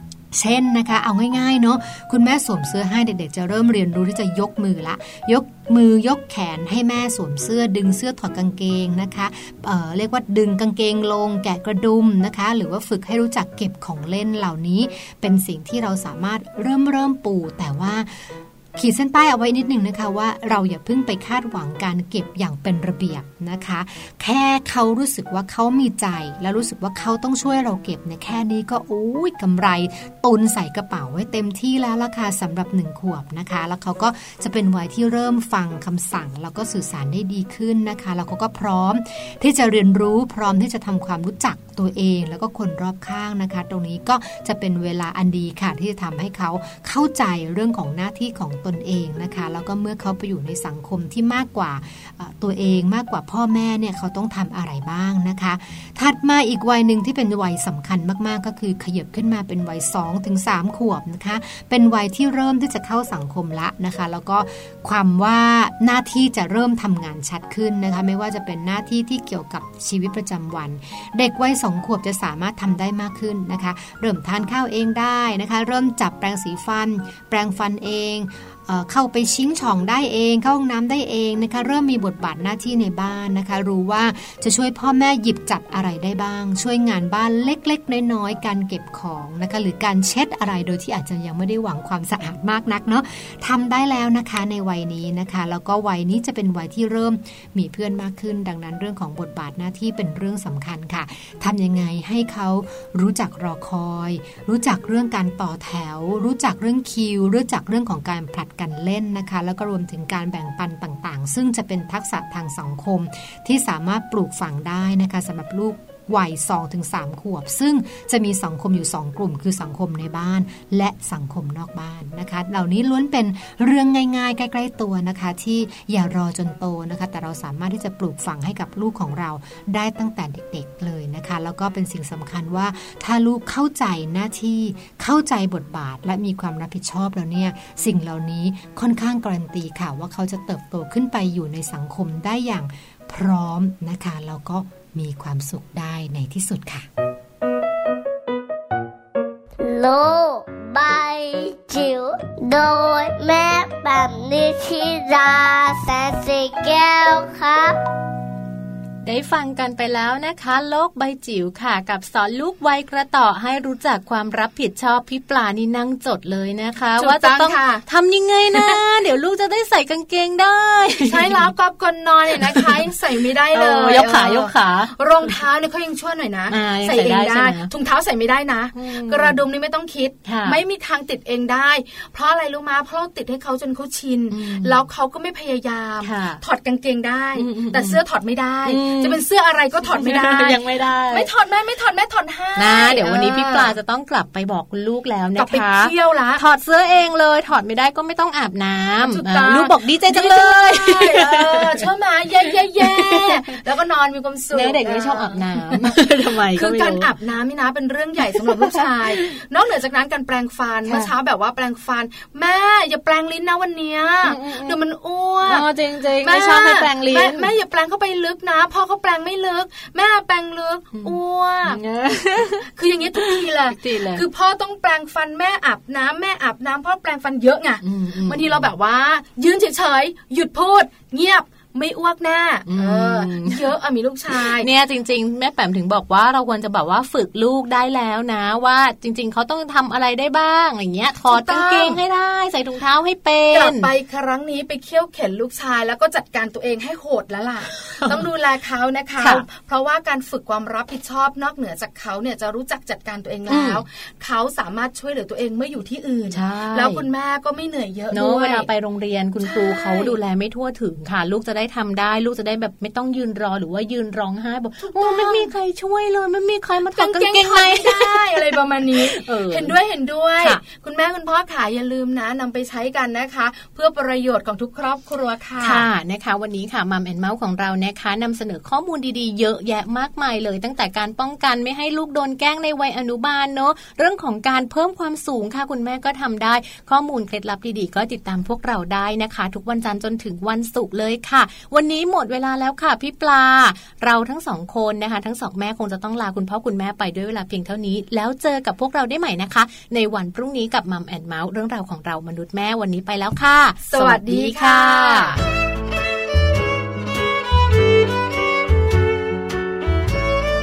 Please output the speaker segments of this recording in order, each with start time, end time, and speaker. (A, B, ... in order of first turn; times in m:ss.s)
0:00.3-2:26.9 A
2:29.6-2:37.8 B
2:39.0-2:51.5 C
2:47.0-2:47.8 D
2:51.0-3:13.7 D
2:52.3-2:52.9 C
2:53.5-2:55.3 C
2:56.5-2:57.7 C
2:58.7-2:59.4 C
3:00.2-3:00.6 C
3:04.3-3:04.8 C
3:06.0-3:06.4 C
3:07.4-3:08.0 C
3:08.6-3:09.2 C
3:09.9-3:11.3 C
3:12.6-3:21.8 C
3:15.4-3:16.4 D
3:19.0-3:26.0 D
3:22.6-3:23.4 C
3:24.5-3:27.1 C
3:26.5-3:35.7 D
3:28.3-3:29.2 C
3:34.2-3:34.8 C
3:35.4-3:37.5 C
3:36.2-3:41.8 D
3:40.9-3:44.2 C
3:42.7-3:54.7 D
3:47.8-3:48.7 C
3:52.7-3:53.6 C
3:54.3-4:03.9 C
4:01.3-4:02.0 D
4:03.5-4:18.7 D
4:09.2-4:09.4 C
4:13.5-4:13.8 C
4:16.3-4:17.0 C
4:18.1-4:29.7 C
4:19.4-4:20.2 D
4:24.8-4:25.5 D
4:26.9-4:35.8 D
4:35.6-5:05.4 C
5:03.8-5:05.4 D